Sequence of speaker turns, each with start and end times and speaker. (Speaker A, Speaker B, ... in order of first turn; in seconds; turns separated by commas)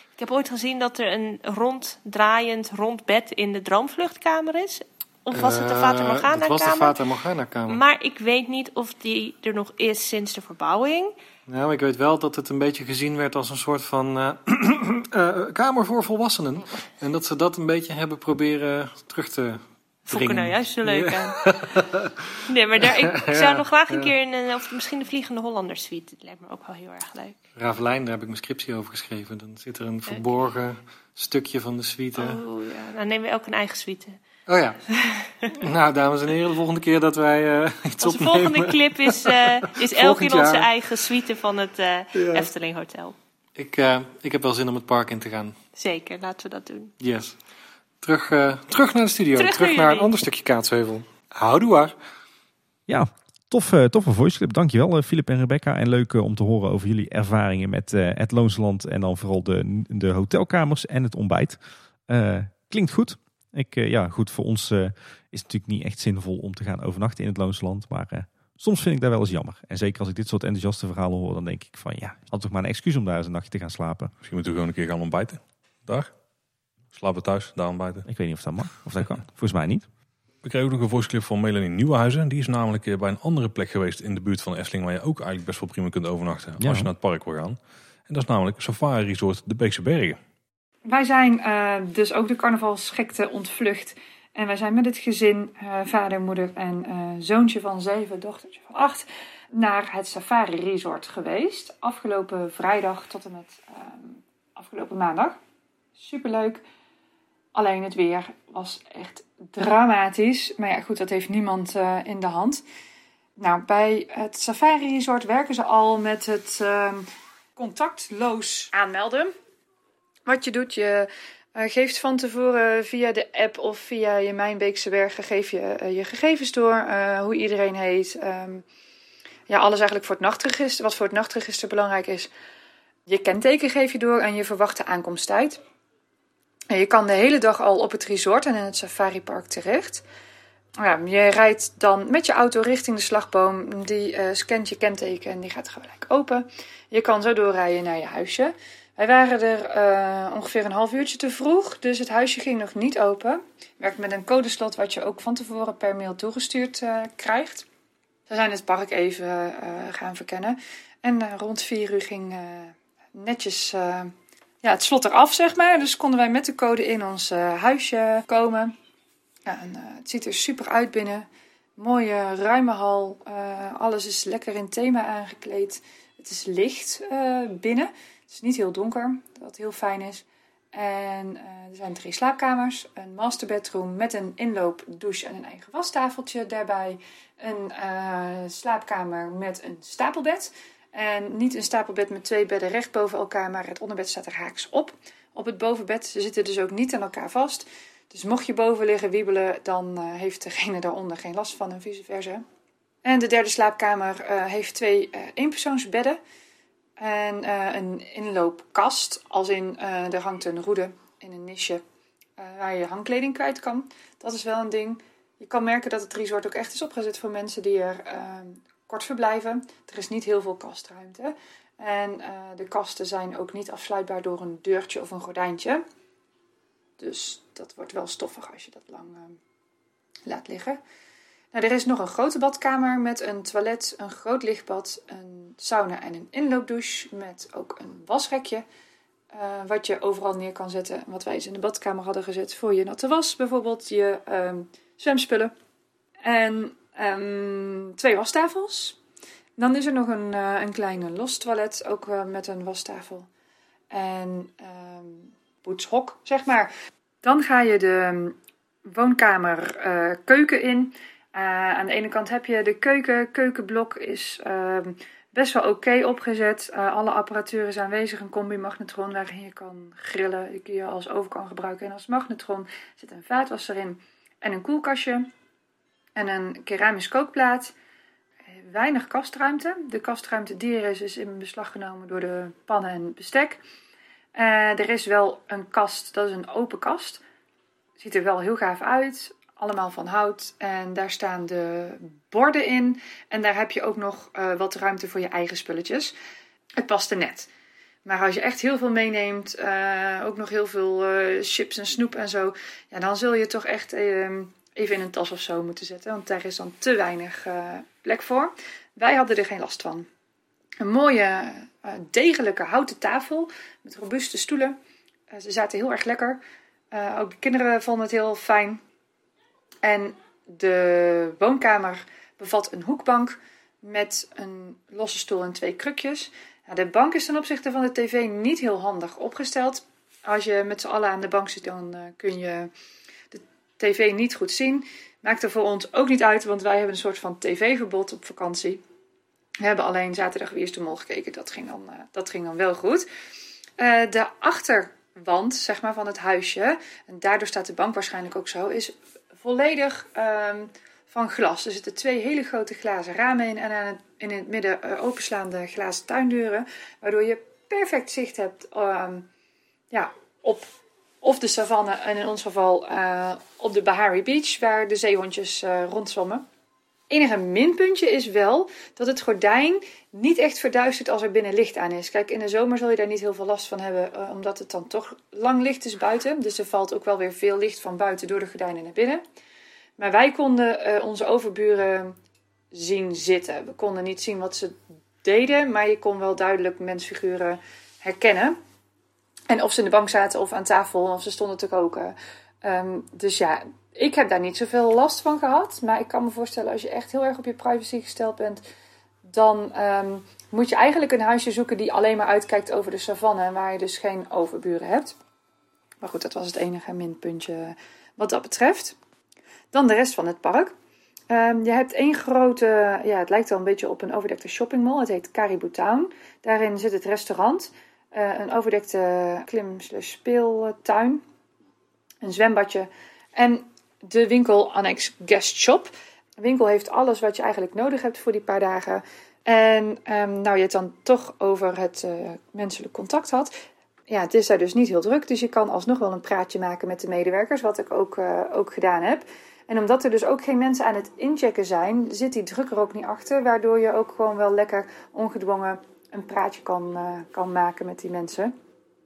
Speaker A: 0.2-7.0, Speaker B: 5.3-7.8, Speaker A: 7.7-11.1, Speaker B: 11.5-22.1, Speaker A: 20.1-21.4, Speaker A: 22.5-27.4, Speaker B: 22.8-24.1, Speaker B: 27.6-32.4, Speaker A: 32.2-34.2, Speaker B: 34.5-34.8, Speaker A: 34.9-35.5, Speaker B: 35.5-40.7, Speaker A: 38.0-43.1, Speaker B: 42.2-42.5, Speaker B: 43.6-45.6, Speaker A: 45.8-46.9, Speaker B: 47.0-47.4, Speaker B: 48.0-51.9, Speaker A: 49.4-50.1, Speaker C: 52.9-74.1, Speaker D: 74.2-76.1, Speaker D: 76.9-78.1, Speaker C: 78.1-79.9, Speaker D: 80.4-87.6, Speaker C: 86.6-86.9, Speaker D: 88.1-90.2, Speaker E: 90.9-105.4, Speaker E: 106.0-106.6, Speaker E: 107.5-112.6, Speaker E: 113.4-117.1, Speaker E: 117.6-119.3, Speaker E: 120.3-128.6, Speaker E: 129.5-132.3, Speaker E: 133.1-135.6, Speaker E: 136.7-140.0, Speaker E: 140.8-157.7, Speaker E: 158.3-168.8, Speaker E: 169.4-202.4, Speaker E: 203.1-206.2, Speaker E: 207.0-211.8, Speaker E: 212.4-225.8, Speaker E: 227.0-229.4, Speaker E: 230.3-230.8, Speaker E: 231.5-238.7, Speaker E: 239.3-245.5, Speaker E: 246.2-249.0, Speaker E: 249.6-253.3, Speaker E: 253.9-256.7, Speaker E: 257.2-258.4, Speaker E: 258.9-275.3, Speaker E: 276.1-277.7, Speaker E: 278.6-283.6, Speaker E: 284.4-287.2, Speaker E: 288.0-296.1, Speaker E: 296.8-297.5, Speaker E: 298.1-310.1, Speaker E: 310.8-314.8, Speaker E: 315.3-316.4, Speaker E: 316.9-318.8, Speaker E: 319.8-332.7, Speaker E: 333.3-338.8, Speaker E: 339.6-343.1, Speaker E: 343.8-359.3, Speaker E: 359.9-360.7, Speaker E: 361.2-366.4, Speaker E: 367.1-379.2, Speaker E: 380.0-382.2, Speaker E: 382.7-388.6, Speaker E: 389.5-398.6, Speaker E: 399.3-405.1, Speaker E: 406.0-409.0, Speaker E: 409.7-410.7, Speaker E: 411.3-421.2, Speaker E: 422.2-433.5, Speaker E: 434.1-448.5